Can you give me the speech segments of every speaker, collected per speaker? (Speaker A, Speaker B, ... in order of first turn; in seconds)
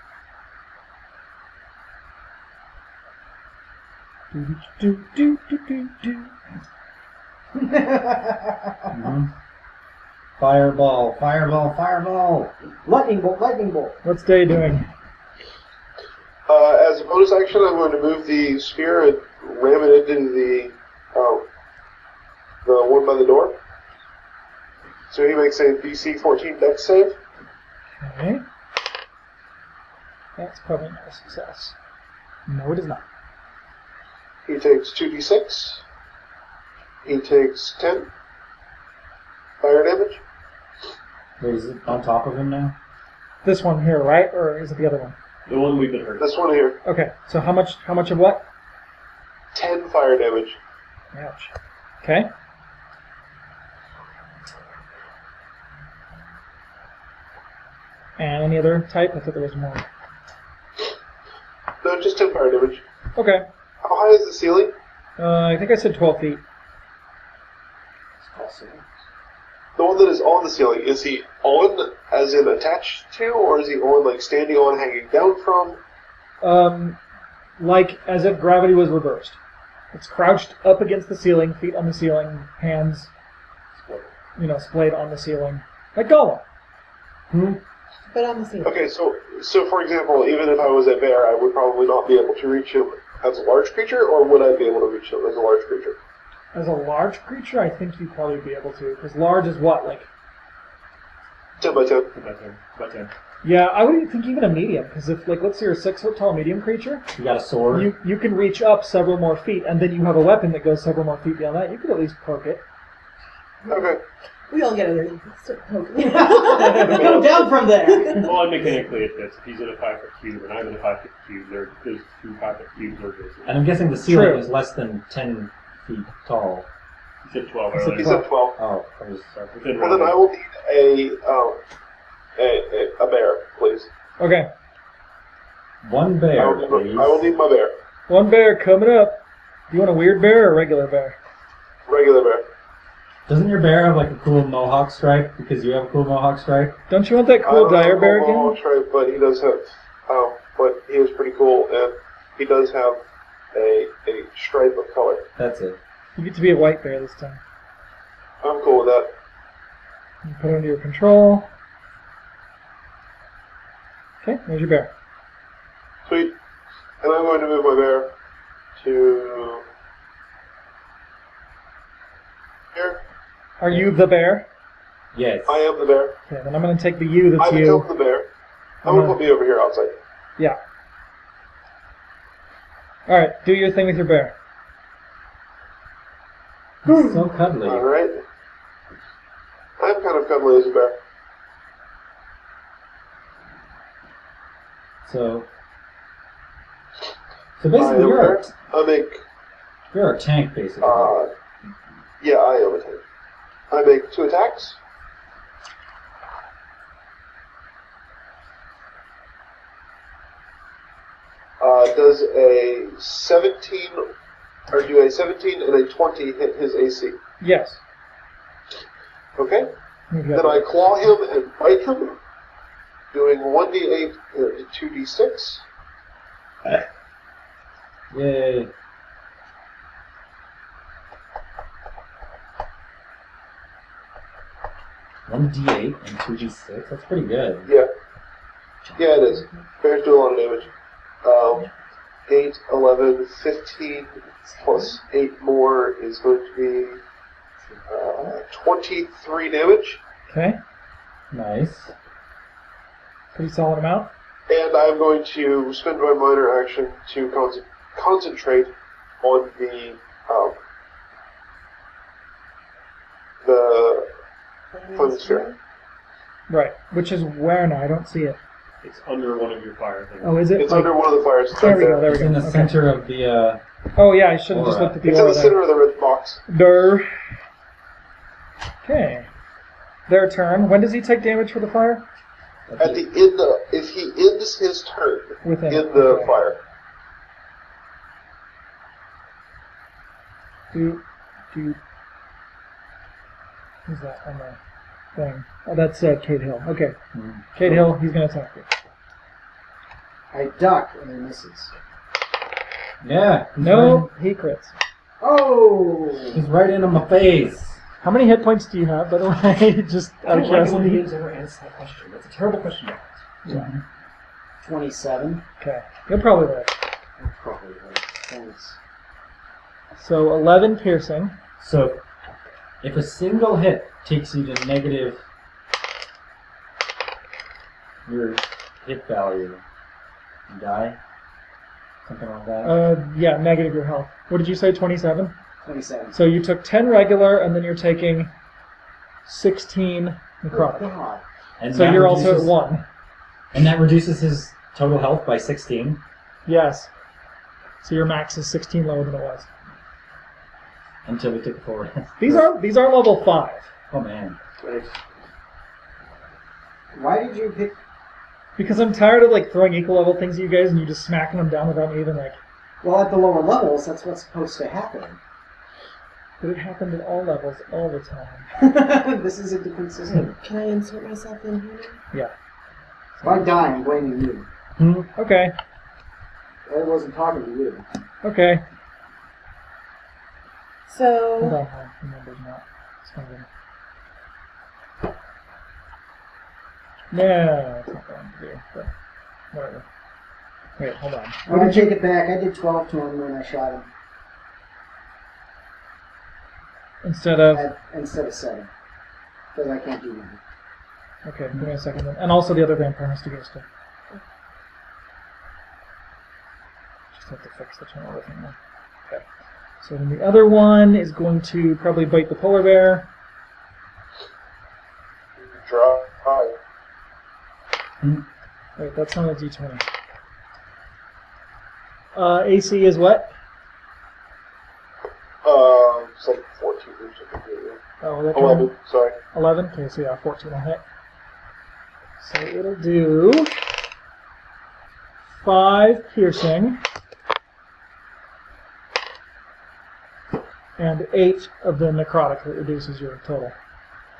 Speaker A: 4.3-6.3, 14.0-14.9, 28.0-28.4, 30.4-31.8, 32.5-33.0, 43.4-45.1, 46.9-48.4, 51.1-52.3, 58.2-59.9, 63.1-63.4, 65.2-66.4, 76.4-77.0, 77.6-79.4, 79.9-83.1, 84.4-86.4, 96.5-100.1, 103.4-107.0, 107.7-112.6, 124.0-124.4, 127.7-128.3, 134.2-134.5, 138.1-141.2, 146.9-148.6, 156.2-157.4, 160.2-161.5, 164.2-164.9, 173.6-174.5, 176.3-177.9, 178.8-179.2, 183.1-184.3, 186.9-187.2, 217.4-217.8, 220.1-220.9, 250.3-250.6, 253.3-254.1, 266.5-268.4, 270.2-271.0, 271.5-272.8, 273.9-275.6, 276.5-277.1, 278.8-279.3, 280.1-282.0, 285.4-286.4, 290.7-291.8, 293.9-294.6, 295.1-297.0, 297.5-298.7, 303.6-304.7, 308.0-311.0, 313.4-313.7, 315.6-316.7, 319.9-321.4, 332.6-335.3, 336.1-338.3, 339.2-340.9, 341.7-342.8, 346.4-346.9, 347.8-349.5, 352.2-353.7, 358.6-362.4, 366.4-368.5, 373.2-373.5, 375.1-375.5, 378.2-378.6, 381.4-383.4, 387.1-388.9, 389.5-389.9, 390.8-391.9, 397.0-397.7, 401.2-403.6, 407.1-408.6, 409.8-413.1, 418.8-419.8, 422.1-423.3, 428.0-428.7, 429.3-430.8, 432.2-433.5, 435.4-436.8, 440.8-443.6
Speaker B: 7.5-8.9, 12.8-14.0, 68.2-68.8, 116.0-118.5, 300.3-301.7, 305.2-306.4, 314.6-315.4, 317.2-318.8, 335.6-336.2, 340.5-341.2, 356.9-357.8, 362.8-365.2, 368.6-370.4, 373.2-374.5, 376.7-377.8, 391.4-393.9, 397.5-398.7, 399.5-400.4
Speaker C: 8.9-9.3, 10.4-12.5, 41.4-42.8, 87.3-87.6, 107.1-107.9, 123.5-126.7, 128.6-129.7, 135.8-137.3, 143.3-146.8, 155.4-155.8, 175.1-175.6, 186.8-187.9, 195.0-195.5, 197.6-198.5, 199.9-201.2, 228.1-228.7, 235.3-237.7, 251.3-251.9, 271.6-273.6, 274.5-275.0, 282.7-283.0, 297.1-297.8, 303.0-304.1, 306.3-307.8, 313.5-313.8, 321.6-322.0, 322.8-325.2, 328.1-329.6, 330.5-331.0, 332.0-332.8, 341.6-342.5, 343.5-346.0, 351.0-352.5, 353.9-354.4, 374.8-375.1
Speaker D: 16.5-21.4, 22.6-23.5, 25.1-27.2, 34.5-35.8, 37.0-38.1, 39.6-40.2, 46.2-46.8, 49.5-50.6, 61.8-62.8, 63.8-64.7, 69.8-75.8, 88.6-96.0, 101.6-102.1, 113.7-114.0, 128.0-128.6, 129.8-131.6, 132.4-133.9, 136.4-137.8, 141.9-142.4, 147.4-153.0, 153.5-155.2, 158.4-159.1, 166.1-166.3, 167.0-168.1, 168.8-169.6, 172.8-173.0, 175.5-176.1, 177.4-178.3, 178.8-179.9, 187.6-188.2, 189.8-190.9, 197.8-199.2, 200.8-201.3, 202.2-203.0, 203.7-204.8, 211.6-214.0, 214.7-217.2, 219.4-219.7, 220.3-222.2, 223.1-225.6, 239.0-240.7, 241.2-241.7, 242.3-247.0, 247.9-250.0, 254.5-260.6, 263.4-264.1, 264.9-265.5, 270.6-272.0, 275.0-276.4, 282.8-286.6, 415.4-416.5, 425.4-427.8, 428.3-429.1
Speaker E: 45.5-46.3, 83.8-84.1, 102.1-103.1, 116.8-117.2, 118.2-123.5, 127.2-128.2, 129.6-130.2, 268.8-270.5, 310.2-313.2, 354.6-354.9
Speaker F: 88.1-88.8, 113.7-113.9, 114.5-118.3, 244.5-244.9, 264.7-265.6, 370.1-372.0, 380.9-381.6